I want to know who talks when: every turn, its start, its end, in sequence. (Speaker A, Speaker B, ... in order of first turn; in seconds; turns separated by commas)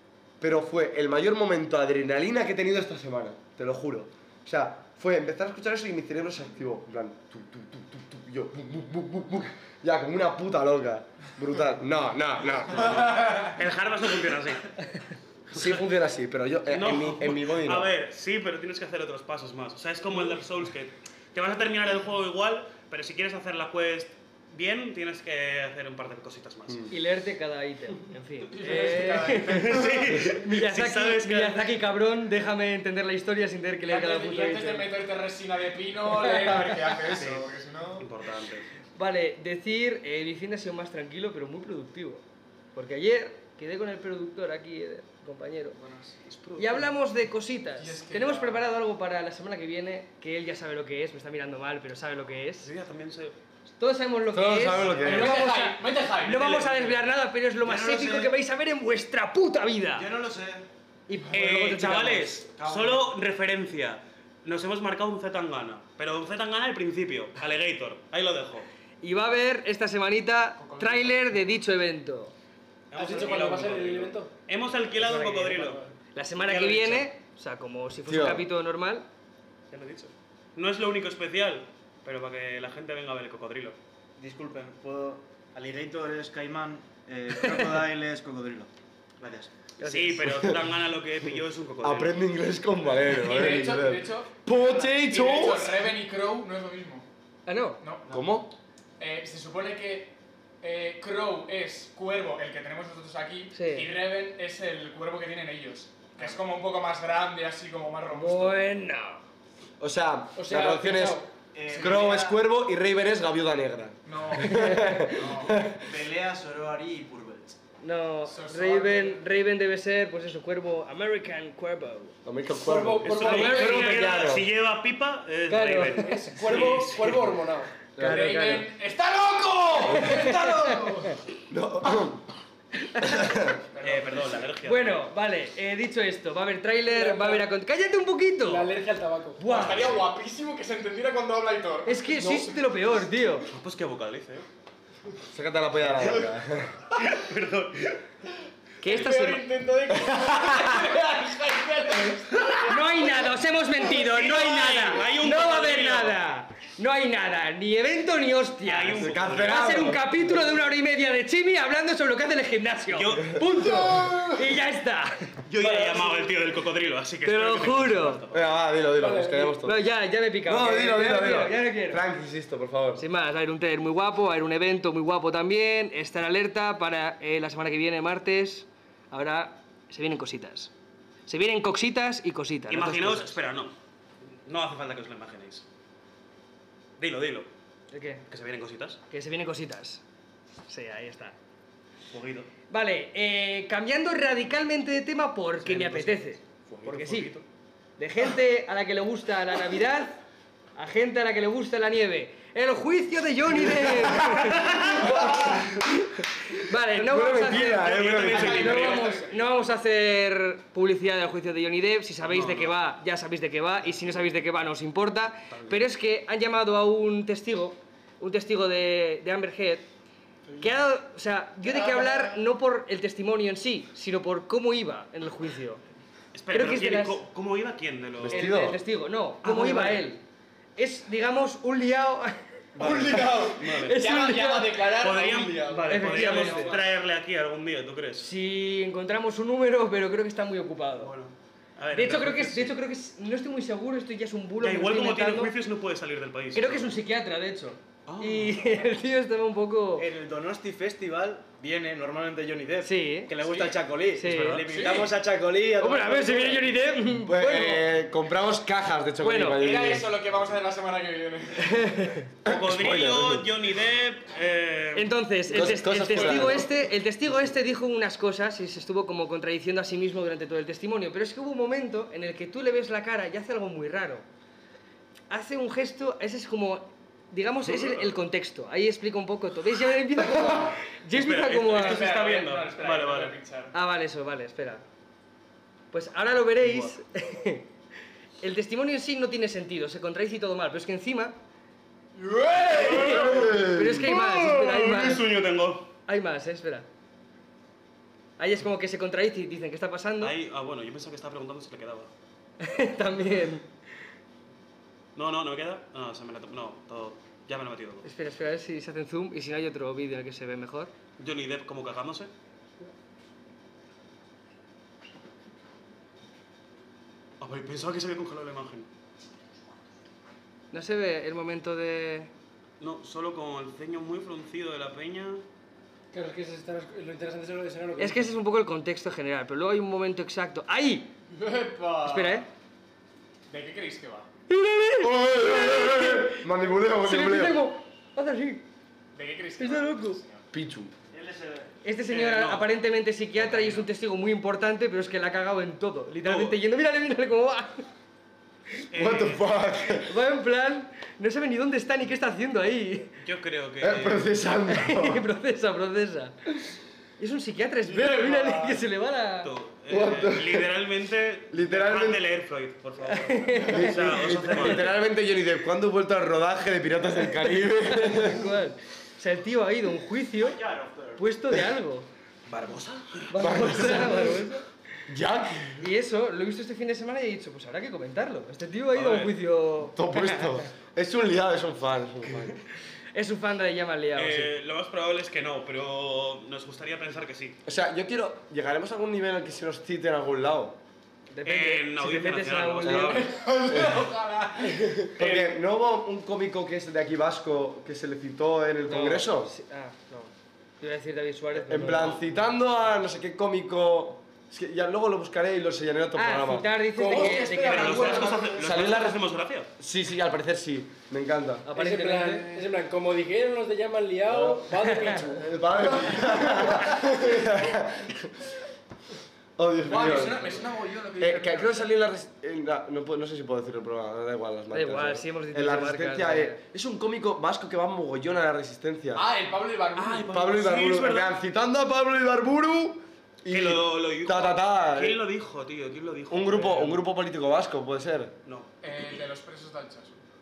Speaker A: 0.4-13.5, Speaker B: 12.9-14.7, Speaker A: 15.5-17.9, Speaker B: 15.5-15.8, Speaker B: 16.7-26.9, Speaker C: 26.9-35.0, Speaker D: 28.5-30.3, Speaker B: 29.5-31.7, Speaker D: 33.9-38.1, Speaker C: 36.1-36.9, Speaker B: 37.1-37.5, Speaker B: 38.0-38.7, Speaker C: 39.0-42.2, Speaker C: 42.8-45.8, Speaker D: 45.8-46.2, Speaker B: 46.2-46.9, Speaker C: 46.6-52.7, Speaker D: 47.8-48.7, Speaker B: 52.6-53.4, Speaker C: 53.8-60.1, Speaker A: 54.3-55.4, Speaker B: 54.8-55.1, Speaker D: 55.0-56.7, Speaker B: 56.3-57.0, Speaker E: 57.6-58.3, Speaker E: 60.0-60.7, Speaker C: 61.1-62.4, Speaker B: 61.3-68.7, Speaker E: 62.5-63.1, Speaker C: 69.0-72.3, Speaker D: 70.6-71.2, Speaker B: 72.9-75.8, Speaker F: 73.0-74.3, Speaker C: 75.0-79.1, Speaker B: 76.4-77.1, Speaker A: 78.1-78.5, Speaker B: 79.7-83.8, Speaker E: 84.2-89.5, Speaker C: 89.8-90.2, Speaker B: 89.8-92.2, Speaker A: 90.2-90.6, Speaker A: 91.8-95.8, Speaker D: 93.1-97.1, Speaker C: 97.5-97.8, Speaker D: 97.8-98.1, Speaker A: 98.1-98.5, Speaker D: 99.0-108.6, Speaker C: 103.5-103.9, Speaker C: 108.1-109.2, Speaker A: 109.8-115.9, Speaker F: 110.4-111.3, Speaker E: 111.5-112.4, Speaker D: 111.7-112.1, Speaker D: 114.0-115.6, Speaker C: 114.4-115.0, Speaker E: 115.5-117.6, Speaker C: 117.8-122.2, Speaker D: 118.2-119.2, Speaker A: 122.2-124.5, Speaker F: 122.5-123.8, Speaker B: 123.0-127.4, Speaker C: 123.2-124.1, Speaker C: 125.5-126.3, Speaker D: 126.1-126.8, Speaker F: 126.3-127.7, Speaker A: 128.0-128.6, Speaker D: 128.0-131.2, Speaker C: 128.0-128.7, Speaker C: 129.8-131.2, Speaker A: 131.5-132.3, Speaker C: 132.9-133.2, Speaker A: 133.0-133.6, Speaker D: 133.7-134.6, Speaker B: 133.8-135.1, Speaker C: 134.6-138.7, Speaker F: 136.9-137.5, Speaker F: 138.4-139.6, Speaker C: 139.4-140.0, Speaker D: 139.5-142.6, Speaker B: 139.5-139.9, Speaker C: 141.8-143.5, Speaker B: 143.5-144.5, Speaker A: 145.3-146.8, Speaker B: 147.0-148.0, Speaker C: 148.8-149.5, Speaker D: 148.8-153.9, Speaker C: 152.7-165.3, Speaker B: 154.0-156.2, Speaker B: 158.6-159.8, Speaker A: 159.0-160.2, Speaker B: 162.9-163.6, Speaker A: 163.4-163.7, Speaker B: 165.5-168.5, Speaker C: 167.2-168.2, Speaker A: 168.3-169.8, Speaker F: 168.9-169.5, Speaker C: 169.6-172.0, Speaker A: 170.5-173.0, Speaker C: 173.0-180.7, Speaker C: 181.3-183.4, Speaker B: 182.7-183.7, Speaker B: 184.5-185.7, Speaker B: 187.0-187.5, Speaker C: 187.9-188.2, Speaker B: 188.3-189.0, Speaker C: 189.1-190.0, Speaker C: 190.7-191.4, Speaker B: 192.1-192.5, Speaker C: 192.7-197.3, Speaker B: 195.6-197.5, Speaker C: 198.0-200.2, Speaker C: 200.8-205.6, Speaker A: 204.3-205.9, Speaker B: 204.3-205.0, Speaker A: 206.5-208.8, Speaker C: 206.6-219.9, Speaker B: 207.4-209.1, Speaker D: 208.3-209.4, Speaker B: 212.2-212.8, Speaker B: 215.5-215.8, Speaker C: 220.6-225.8, Speaker D: 221.7-222.3, Speaker B: 226.3-228.6, Speaker C: 226.5-227.2, Speaker A: 228.2-228.8, Speaker C: 228.3-230.2, Speaker B: 229.4-230.1, Speaker C: 230.8-234.9, Speaker B: 232.8-234.1, Speaker D: 232.8-236.9, Speaker B: 234.8-238.3, Speaker C: 235.9-236.8, Speaker C: 238.2-241.1, Speaker B: 241.0-242.8, Speaker C: 241.9-245.5, Speaker B: 244.6-247.0, Speaker C: 246.5-250.1, Speaker B: 248.1-248.7, Speaker E: 250.0-256.8, Speaker C: 252.8-253.3, Speaker C: 254.2-254.7, Speaker B: 254.2-254.7, Speaker D: 254.7-255.1, Speaker C: 255.8-257.9, Speaker A: 257.2-260.1, Speaker C: 259.2-259.7, Speaker D: 259.6-262.0, Speaker C: 261.6-262.3, Speaker A: 262.4-263.5, Speaker B: 262.4-265.1, Speaker C: 264.9-274.2, Speaker A: 265.5-266.7, Speaker C: 275.3-282.1, Speaker B: 277.6-278.1, Speaker B: 281.1-283.4, Speaker D: 281.7-283.7, Speaker C: 283.7-284.8, Speaker C: 285.9-287.7, Speaker C: 288.4-291.4, Speaker D: 292.2-293.7, Speaker C: 292.7-295.3, Speaker B: 292.8-293.4, Speaker A: 293.1-294.1, Speaker B: 293.9-295.9, Speaker C: 296.1-296.9, Speaker C: 298.4-300.4, Speaker B: 300.2-302.1, Speaker C: 302.6-303.6, Speaker B: 305.1-308.1, Speaker C: 308.0-310.9, Speaker B: 311.2-312.3, Speaker B: 317.4-318.9, Speaker C: 320.7-322.3, Speaker B: 322.8-325.4, Speaker F: 326.1-328.3, Speaker C: 328.0-331.1, Speaker D: 331.3-332.4, Speaker C: 332.0-332.5, Speaker D: 333.5-334.3, Speaker C: 334.5-338.7, Speaker A: 335.0-337.6, Speaker D: 339.1-340.5, Speaker C: 339.6-340.2, Speaker A: 340.5-340.9, Speaker E: 341.1-341.7, Speaker C: 341.9-347.9, Speaker B: 342.1-342.7, Speaker B: 343.4-343.9, Speaker B: 346.2-346.6, Speaker B: 348.9-349.5, Speaker A: 348.9-350.1, Speaker C: 350.0-353.1, Speaker B: 353.2-354.3, Speaker A: 353.8-355.2, Speaker C: 354.7-356.4, Speaker C: 357.2-359.5, Speaker D: 358.1-358.5, Speaker B: 359.4-365.0, Speaker A: 359.9-360.7, Speaker A: 361.5-362.2, Speaker C: 363.1-364.9, Speaker A: 363.6-368.5, Speaker C: 367.4-370.6, Speaker E: 370.4-371.2, Speaker C: 371.2-372.1, Speaker B: 372.5-373.9, Speaker C: 373.3-374.6, Speaker A: 373.4-374.4, Speaker A: 375.1-375.9, Speaker C: 375.8-380.4, Speaker B: 378.9-379.4, Speaker A: 379.9-382.6, Speaker C: 383.1-384.5, Speaker B: 384.1-387.6, Speaker A: 387.6-390.8, Speaker C: 391.3-393.3, Speaker B: 391.4-393.4, Speaker D: 393.1-395.5, Speaker A: 393.7-394.1, Speaker A: 395.1-399.5, Speaker C: 398.8-402.3, Speaker A: 401.5-406.7, Speaker C: 406.1-408.4, Speaker F: 407.0-408.6, Speaker D: 407.1-408.7, Speaker B: 407.6-409.7, Speaker A: 408.6-409.2, Speaker A: 409.8-411.7, Speaker C: 411.6-412.7, Speaker F: 411.7-415.6, Speaker A: 414.3-414.7, Speaker C: 414.8-415.2, Speaker A: 415.2-418.5, Speaker A: 419.6-420.6, Speaker D: 419.8-421.9, Speaker A: 421.2-429.3, Speaker C: 424.7-426.6, Speaker D: 429.1-430.5, Speaker B: 429.9-431.3, Speaker A: 430.3-435.2, Speaker B: 433.5-437.0, Speaker A: 436.3-438.3, Speaker B: 438.4-439.2, Speaker D: 438.8-440.2